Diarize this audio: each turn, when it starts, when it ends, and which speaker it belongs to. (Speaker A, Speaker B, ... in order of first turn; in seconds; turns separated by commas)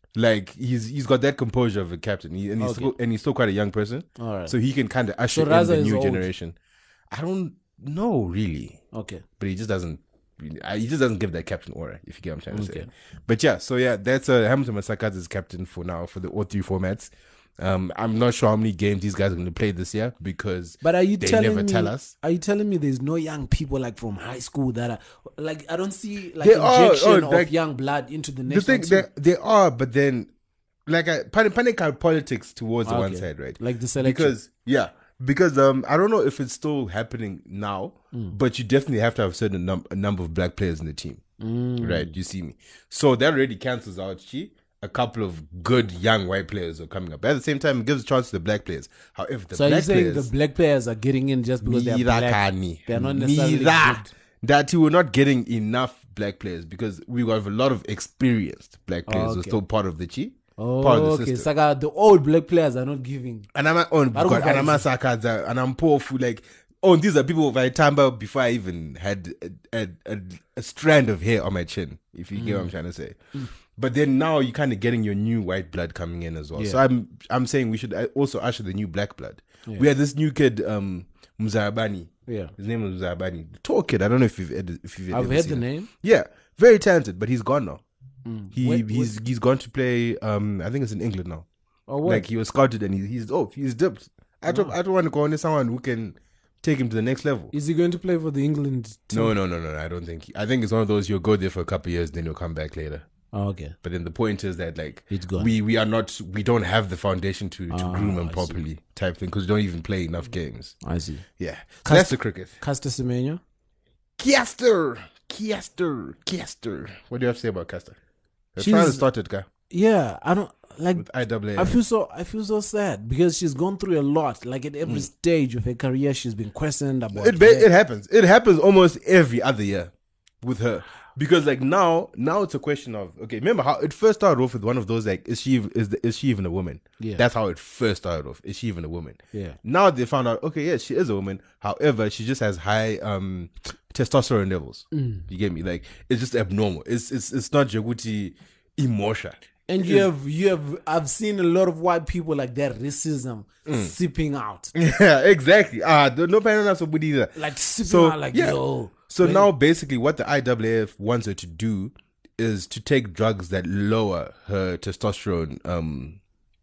Speaker A: 0.1-6.5, Speaker B: 2.6-2.9, Speaker B: 4.2-4.5, Speaker B: 5.3-6.3, Speaker A: 7.1-8.8, Speaker B: 8.9-9.2, Speaker A: 9.4-22.1, Speaker B: 12.5-12.9, Speaker B: 20.8-29.1, Speaker A: 26.4-27.5, Speaker A: 28.5-30.3, Speaker A: 30.9-41.2, Speaker B: 32.9-34.3, Speaker B: 41.4-42.1, Speaker A: 41.8-50.3, Speaker B: 49.5-54.1, Speaker A: 51.6-61.5, Speaker B: 59.1-59.6, Speaker B: 60.6-63.5, Speaker A: 63.5-73.2, Speaker B: 64.1-64.8, Speaker B: 72.3-72.7, Speaker A: 73.8-87.8, Speaker B: 76.5-76.8, Speaker B: 82.3-82.5, Speaker B: 85.1-85.9, Speaker B: 88.3-89.2, Speaker A: 88.5-91.5, Speaker B: 91.9-92.3, Speaker A: 92.0-97.5, Speaker B: 94.5-94.7, Speaker B: 97.5-99.3, Speaker A: 99.1-103.1, Speaker B: 103.3-103.8, Speaker A: 103.8-110.8, Speaker B: 105.1-105.5, Speaker B: 107.7-108.6, Speaker B: 110.8-111.2, Speaker A: 111.4-112.5, Speaker B: 111.8-113.4, Speaker A: 114.2-118.0, Speaker A: 118.5-119.5, Speaker B: 118.6-119.0, Speaker B: 119.7-127.7, Speaker A: 121.0-121.8, Speaker A: 127.2-129.9, Speaker A: 130.4-150.1, Speaker B: 144.9-145.2, Speaker B: 149.7-154.7, Speaker A: 153.7-153.9, Speaker A: 154.8-166.2, Speaker B: 157.4-159.5